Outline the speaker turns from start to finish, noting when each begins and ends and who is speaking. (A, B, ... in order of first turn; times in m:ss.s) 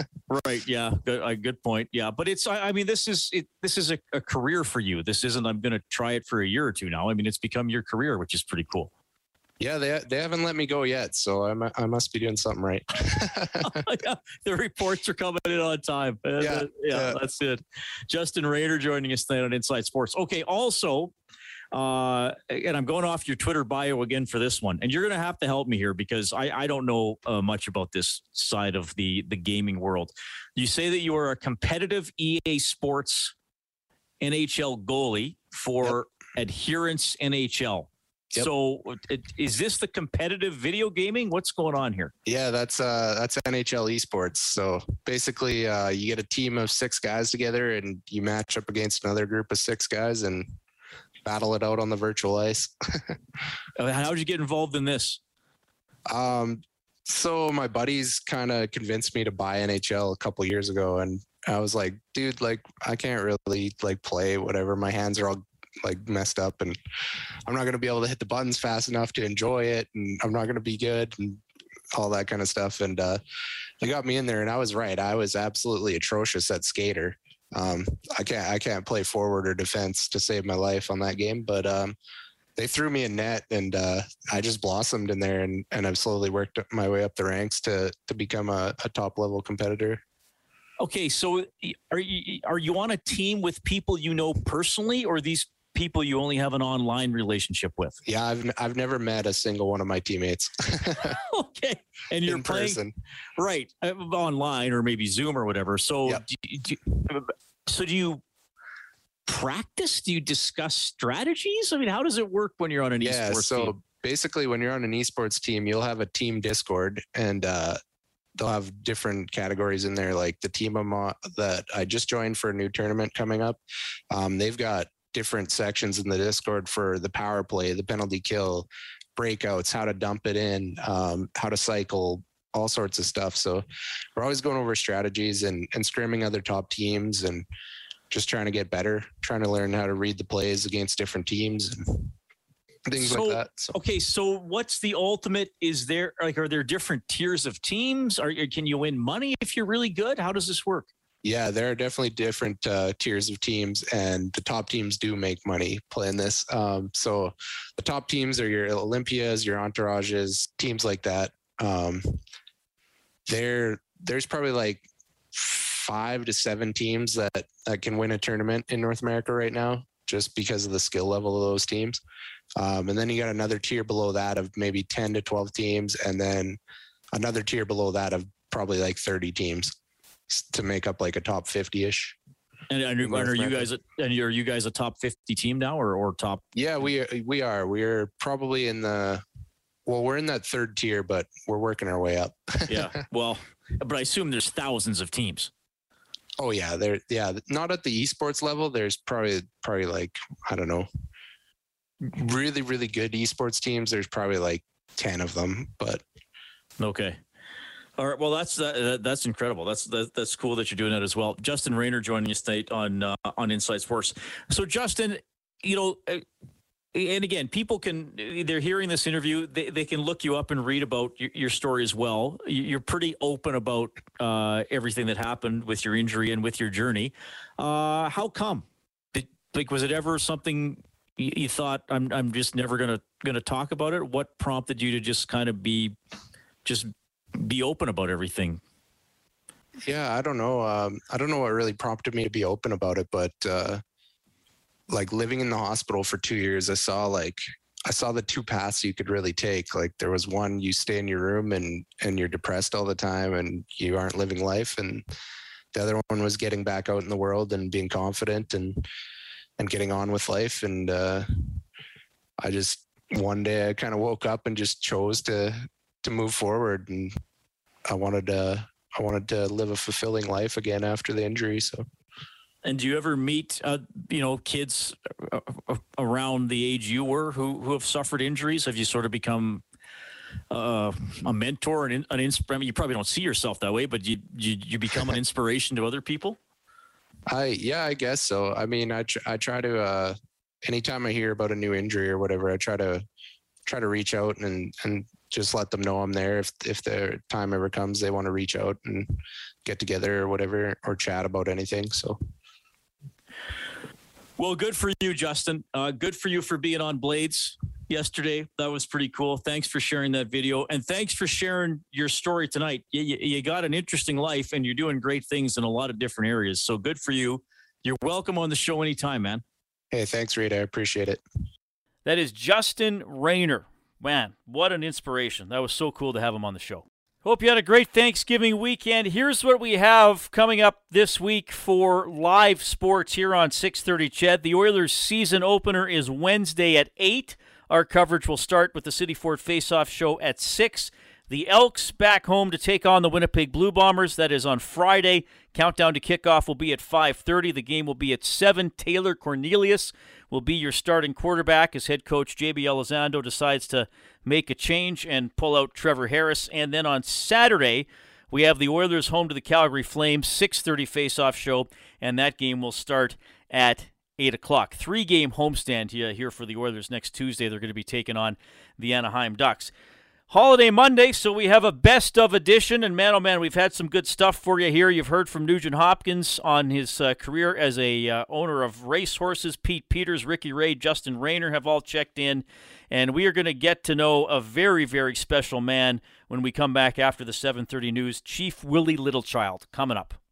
0:00.3-0:08.9 A
0:09.6-0:13.8 B
0:13.6-0:21.1 A
0:16.4-0:17.2 B
0:21.7-0:33.3 A
0:34.2-0:42.1 A
0:42.2-0:50.5 B
0:51.2-0:53.2 B
0:53.8-0:55.2 A
0:56.1-1:06.8 B
1:07.4-1:11.4 B
1:11.9-1:13.2 B
1:13.8-1:22.0 B
1:22.6-1:30.0 B
1:30.8-1:38.0 A
1:38.0-1:41.2 B
1:41.0-1:42.8 A
1:42.2-1:42.9 B
1:43.4-1:48.2 A
1:49.2-1:53.8 A
1:53.0-1:57.8 B
1:58.4-2:03.6 B
2:04.1-2:17.4 B
2:18.1-2:22.1 B
2:22.9-2:23.7 B
2:23.0-2:30.9 A
2:31.2-2:42.2 B
2:43.3-2:52.0 B
2:52.6-2:56.6 B
2:57.1-2:59.7 B
3:00.3-3:02.2 B
3:02.7-3:06.4 A
3:03.0-3:03.7 B
3:06.5-3:09.2 B
3:09.8-3:12.9 B
3:12.7-3:15.5 A
3:16.4-3:20.9 B
3:22.0-3:26.0 B
3:26.8-3:27.2 A
3:28.0-3:36.2 A
3:36.9-3:55.9 A
3:56.6-3:58.6 A
3:59.8-4:03.8 B
4:04.9-4:15.0 B
4:15.7-4:18.8 B
4:19.6-4:21.6 B
4:22.4-4:27.1 B
4:27.9-4:31.8 B
4:32.6-4:39.6 A
4:40.5-4:46.4 A
4:47.3-4:53.0 B
4:53.6-5:02.2 B
5:04.4-5:19.4 A
5:19.9-5:21.2 B
5:22.0-6:09.7 C
6:10.3-6:30.2 C